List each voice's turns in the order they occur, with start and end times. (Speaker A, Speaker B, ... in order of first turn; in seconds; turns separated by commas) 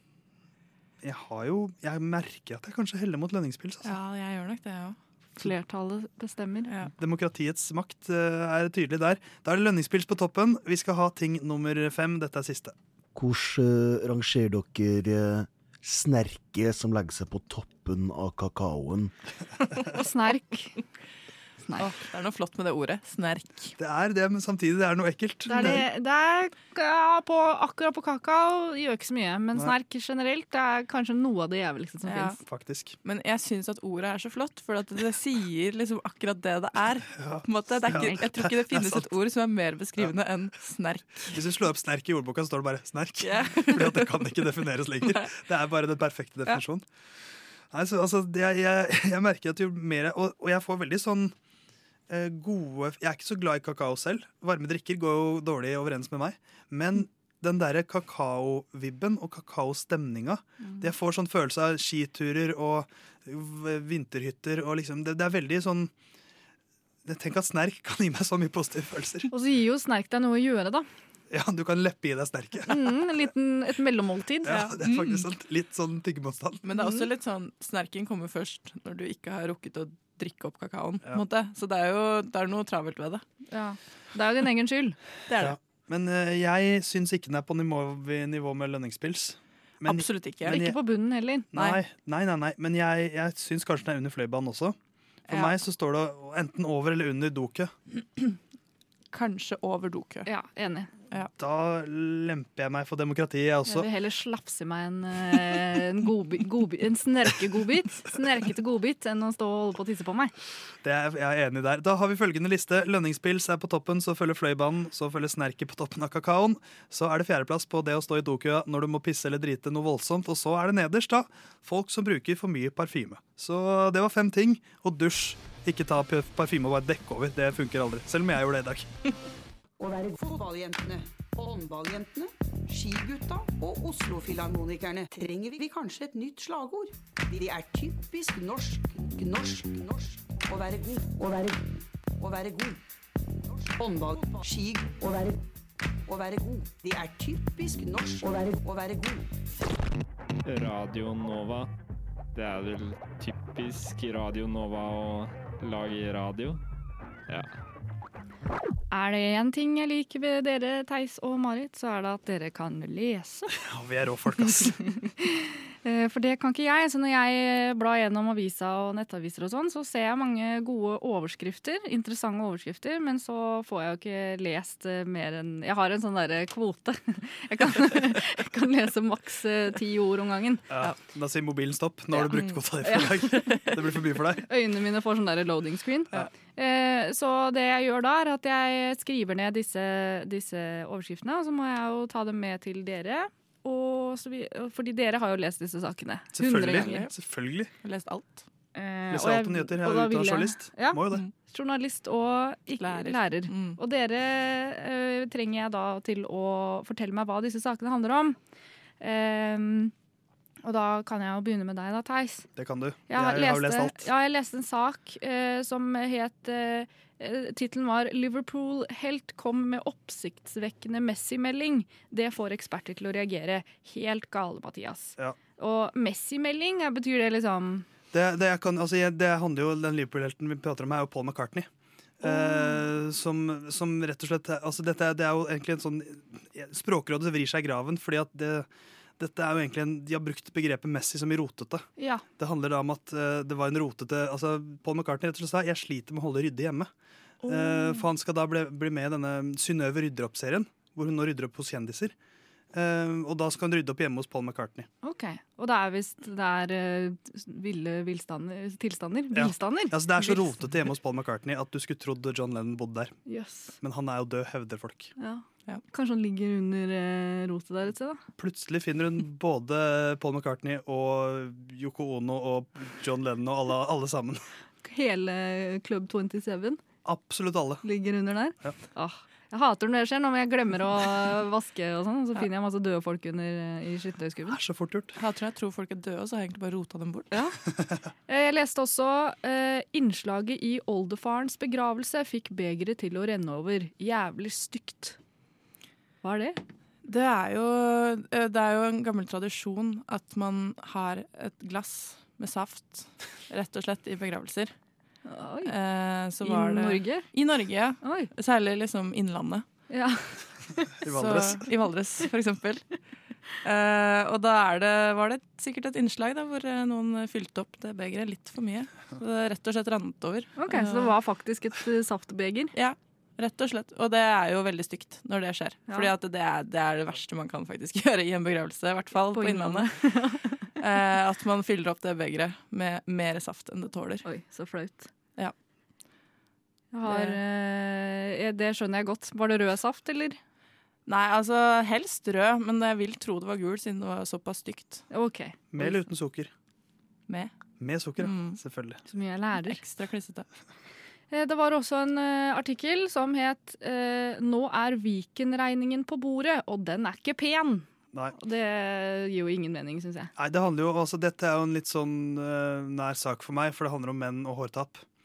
Speaker A: 1.0-4.0, Speaker B: 3.8-5.0, Speaker C: 5.4-6.7, Speaker A: 6.9-12.7, Speaker D: 13.1-19.1, Speaker C: 19.9-20.8, Speaker B: 21.8-23.7, Speaker A: 23.8-25.9, Speaker C: 25.5-32.4, Speaker B: 32.0-32.4, Speaker A: 32.4-33.0, Speaker B: 33.0-41.4, Speaker A: 37.1-39.1, Speaker A: 41.3-46.8, Speaker B: 43.2-44.1, Speaker B: 45.0-45.3, Speaker A: 47.7-51.3, Speaker A: 52.1-65.9, Speaker A: 67.0-69.3, Speaker C: 69.3-70.8, Speaker A: 71.3-73.0, Speaker C: 72.7-74.8, Speaker A: 74.5-76.7, Speaker B: 74.8-75.2, Speaker B: 76.6-83.2, Speaker C: 76.7-77.1, Speaker C: 83.5-85.0, Speaker B: 85.3-85.5, Speaker A: 85.3-90.8, Speaker B: 89.8-90.6, Speaker C: 90.4-91.5, Speaker A: 91.5-94.8, Speaker B: 95.3-95.5, Speaker A: 95.3-97.7, Speaker B: 99.1-100.3, Speaker C: 100.2-100.9, Speaker A: 101.4-103.9, Speaker C: 103.7-110.3, Speaker A: 110.8-128.9, Speaker E: 129.8-142.8, Speaker E: 143.4-145.4, Speaker E: 146.1-149.2, Speaker F: 150.4-151.7, Speaker F: 152.3-156.6, Speaker C: 158.9-163.5, Speaker A: 163.6-164.9, Speaker C: 165.2-180.7, Speaker A: 180.7-184.4, Speaker B: 182.2-182.5, Speaker C: 182.8-183.6, Speaker C: 184.4-197.0, Speaker A: 196.3-197.7, Speaker B: 196.7-197.1, Speaker B: 197.8-198.4, Speaker C: 198.7-208.4, Speaker A: 199.1-201.2, Speaker B: 202.8-203.8, Speaker C: 209.0-209.9, Speaker C: 210.6-212.5, Speaker A: 212.6-214.1, Speaker C: 213.1-227.9, Speaker A: 228.1-231.7, Speaker A: 232.2-238.7, Speaker C: 232.2-232.8, Speaker A: 239.2-241.8, Speaker C: 242.0-242.2, Speaker A: 242.4-246.9, Speaker C: 247.4-248.1, Speaker A: 247.4-252.1, Speaker A: 252.7-254.9, Speaker C: 255.0-260.4, Speaker A: 259.3-263.1, Speaker C: 263.2-263.8, Speaker A: 263.8-265.1, Speaker C: 265.2-268.2, Speaker A: 268.4-274.4, Speaker C: 274.8-276.8, Speaker A: 277.0-277.8, Speaker C: 277.8-284.6, Speaker A: 284.5-285.2, Speaker B: 285.2-287.4, Speaker C: 288.3-295.2, Speaker C: 296.2-296.6, Speaker B: 297.0-304.7, Speaker C: 305.2-305.7, Speaker B: 305.6-309.6, Speaker C: 306.4-307.3, Speaker C: 308.0-308.3, Speaker C: 309.9-310.9, Speaker A: 311.0-311.7, Speaker B: 311.1-312.8, Speaker B: 313.6-321.1, Speaker C: 320.6-322.7, Speaker B: 322.7-329.9, Speaker C: 329.3-330.6, Speaker B: 330.8-334.2, Speaker C: 334.2-335.1, Speaker C: 336.9-340.4, Speaker B: 337.1-337.4, Speaker B: 341.1-345.0, Speaker C: 345.1-345.9, Speaker A: 345.7-346.5, Speaker B: 347.3-347.5, Speaker A: 347.8-349.0, Speaker B: 348.2-348.6, Speaker C: 349.1-349.8, Speaker B: 349.6-350.4, Speaker C: 351.3-360.3, Speaker A: 360.4-365.0